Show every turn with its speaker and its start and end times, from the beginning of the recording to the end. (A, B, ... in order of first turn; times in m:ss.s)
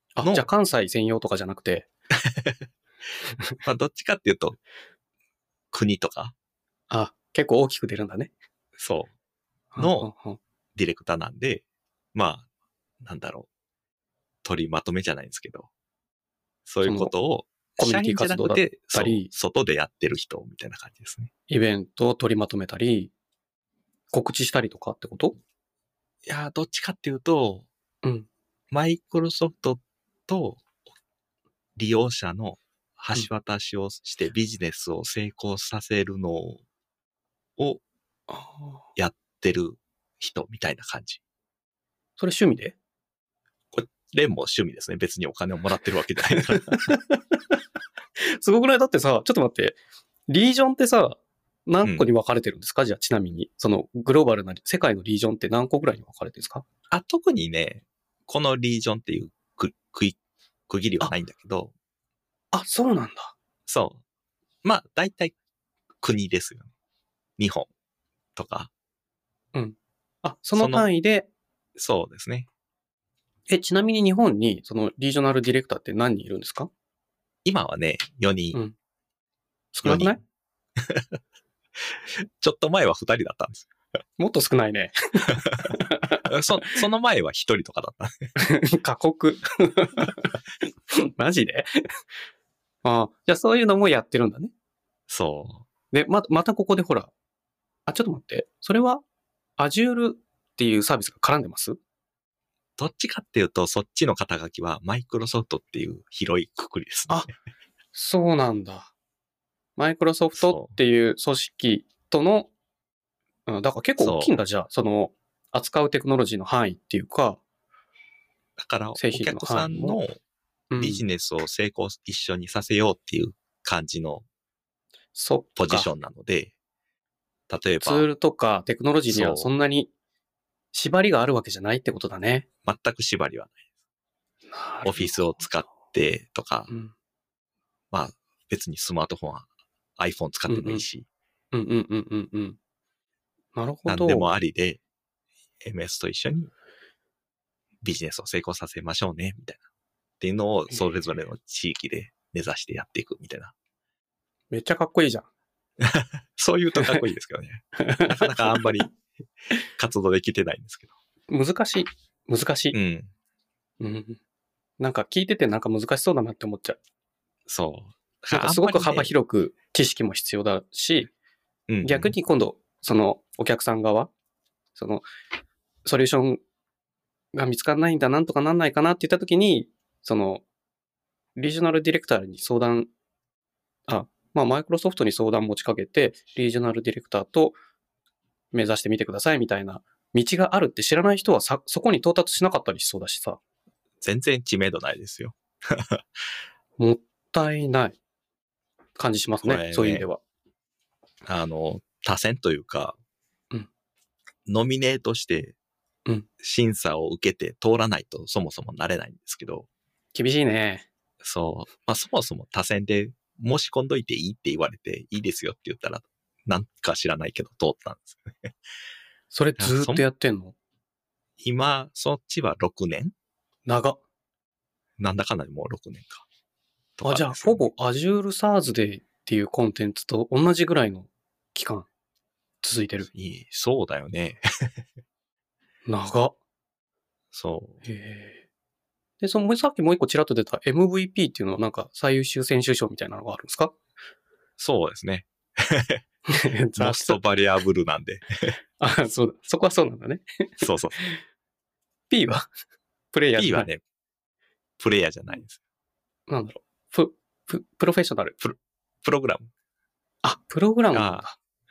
0:00.2-0:01.9 A
0:00.2-0:00.4 B
0:02.2-0:02.6 B
0:03.6-0:04.6 B
0:05.7-0:06.3 B
0:06.9-0:08.3 A
0:08.8-0:09.1 B
0:09.7-0:10.4 A
0:09.8-0:10.1 B
0:10.7-0:12.4 B
0:13.0-0:13.5 B
0:14.4-0:15.7 B
0:16.7-0:21.3 B
0:16.8-0:17.1 A
0:17.8-0:19.3 A
0:21.5-0:23.1 A
0:24.1-0:25.4 A
0:26.2-0:27.7 B
0:28.0-0:28.3 A
0:28.7-0:30.6 B
0:31.8-0:36.6 B
0:37.6-0:37.8 B
0:38.3-0:38.8 A
0:39.0-0:41.2 B
0:42.2-0:42.8 A
0:43.7-0:46.8 B
0:46.4-0:47.2 A
0:48.2-0:49.8 A
0:50.3-0:56.6 A
0:56.9-1:00.2 B
1:00.7-1:01.7 B
1:02.5-1:03.3 A
1:03.7-1:04.0 B
1:04.6-1:05.3 B
1:06.0-1:06.7 B
1:07.4-1:07.7 B
1:08.4-1:08.7 B
1:09.5-1:11.3 A
1:10.5-1:10.9 B
1:11.8-1:12.5 B
1:13.5-1:16.7 A
1:17.4-1:18.6 B
1:19.7-1:20.2 A
1:19.8-1:20.2 B
1:20.8-1:21.2 B
1:21.9-1:23.7 B
1:24.2-1:26.3 A
1:26.2-1:28.3 B
1:28.4-1:30.4 A
1:30.9-1:31.7 A
1:32.8-1:34.5 A
1:35.1-1:35.6 B
1:35.9-1:37.1 A
1:37.9-1:39.0 A
1:39.6-1:41.8 A
1:42.8-1:47.3 B
1:47.9-1:48.9 A
1:49.8-1:52.5 A
1:50.4-1:50.7 B
1:53.5-1:57.4 A
1:54.0-1:54.3 B
1:58.6-2:00.2 B
1:59.0-2:00.0 A
2:00.7-2:01.0 A
2:00.8-2:04.2 B
2:05.1-2:05.9 A
2:05.6-2:06.5 B
2:07.5-2:08.1 B
2:07.8-2:09.9 A
2:09.1-2:09.5 B
2:10.7-2:12.5 A
2:12.6-2:13.6 B
2:14.5-2:15.3 A
2:14.8-2:16.7 B
2:16.7-2:16.9 A
2:17.9-2:19.5 B
2:20.0-2:21.0 B
2:20.5-2:20.8 A
2:21.5-2:22.6 A
2:23.5-2:24.3 A
2:23.9-2:24.8 B
2:25.6-2:26.5 B
2:27.8-2:29.6 B
2:30.2-2:33.5 B
2:34.5-2:35.2 A
2:35.8-2:38.9 B
2:37.8-2:38.8 A
2:39.8-2:40.9 B
2:41.3-2:42.8 A
2:42.7-2:43.1 B
2:43.8-2:44.2 A
2:44.8-2:46.8 A
2:47.5-2:49.1 B
2:48.3-2:51.1 A
2:51.7-2:52.1 B
2:51.8-2:54.1 A
2:54.7-2:55.0 A
2:55.8-2:56.4 A
2:57.3-3:00.4 A
3:01.4-3:02.9 A
3:03.9-3:07.6 A
3:08.5-3:13.4 A
3:14.0-3:16.0 B
3:16.8-3:18.0 A
3:19.0-3:20.2 A
3:19.4-3:20.0 B
3:21.2-3:23.0 B
3:24.4-3:25.6 B
3:26.4-3:29.7 B
3:30.1-3:30.9 A
3:31.2-3:38.5 B
3:39.3-3:40.5 A
3:39.6-3:40.0 B
3:41.4-3:43.1 B
3:43.6-3:44.0 A
3:45.0-3:46.2 B
3:47.0-3:47.7 B
3:47.0-3:51.9 A
3:52.6-3:53.1 A
3:53.1-3:54.8 B
3:55.9-3:56.3 A
3:57.3-3:57.8 B
3:57.8-3:58.4 A
3:59.2-4:03.7 A
4:04.6-4:06.0 B
4:06.3-4:07.2 A
4:06.7-4:08.6 B
4:08.8-4:11.2 A
4:10.6-4:11.0 B
4:12.1-4:12.5 A
4:13.1-4:13.7 A
4:13.4-4:13.8 B
4:14.8-4:15.6 B
4:16.3-4:18.3 A
4:18.4-4:19.5 B
4:20.2-4:21.4 A
4:20.9-4:21.2 B